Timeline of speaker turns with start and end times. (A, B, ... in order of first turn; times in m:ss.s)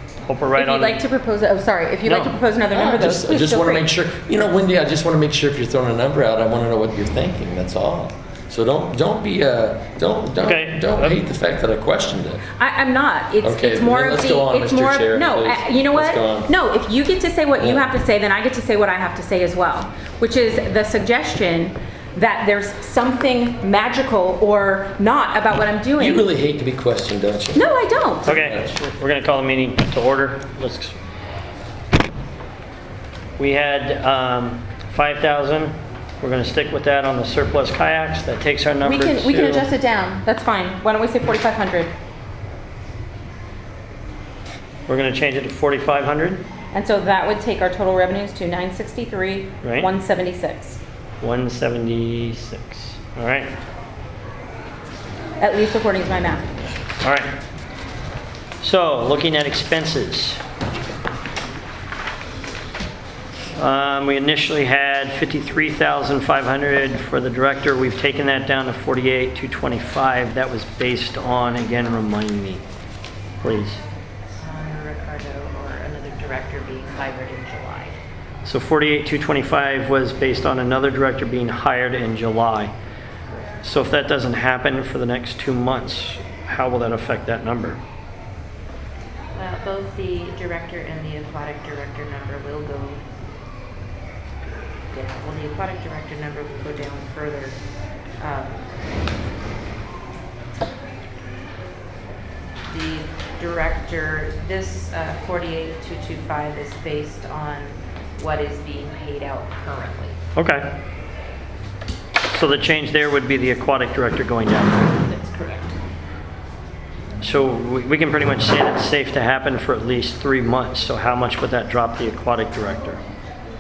0:00.2-0:01.0 A
0:00.5-0:03.9 B
0:02.0-0:02.4 A
0:02.7-0:12.4 C
0:10.4-0:11.2 A
0:12.6-0:26.2 B
0:13.4-0:16.5 C
0:17.6-0:17.9 C
0:26.0-0:27.7 C
0:27.5-0:28.3 B
0:28.2-0:31.0 A
0:28.2-0:28.7 C
0:33.4-0:39.7 A
0:38.8-0:41.9 B
0:44.9-0:46.4 A
0:46.7-0:50.8 B
0:49.6-0:49.9 A
0:51.2-0:53.5 A
0:55.4-0:56.5 B
0:57.0-0:57.3 A
0:58.6-1:00.4 A
1:03.6-1:12.6 A
1:13.4-1:13.8 A
1:14.4-1:18.0 D
1:18.4-1:22.7 A
1:23.6-1:27.8 A
1:29.3-1:33.0 D
1:34.9-1:37.6 D
1:38.2-1:38.7 D
1:42.6-1:50.2 D
1:50.4-1:50.7 A
1:52.3-1:55.0 A
1:55.0-1:55.8 D
1:57.2-2:03.0 A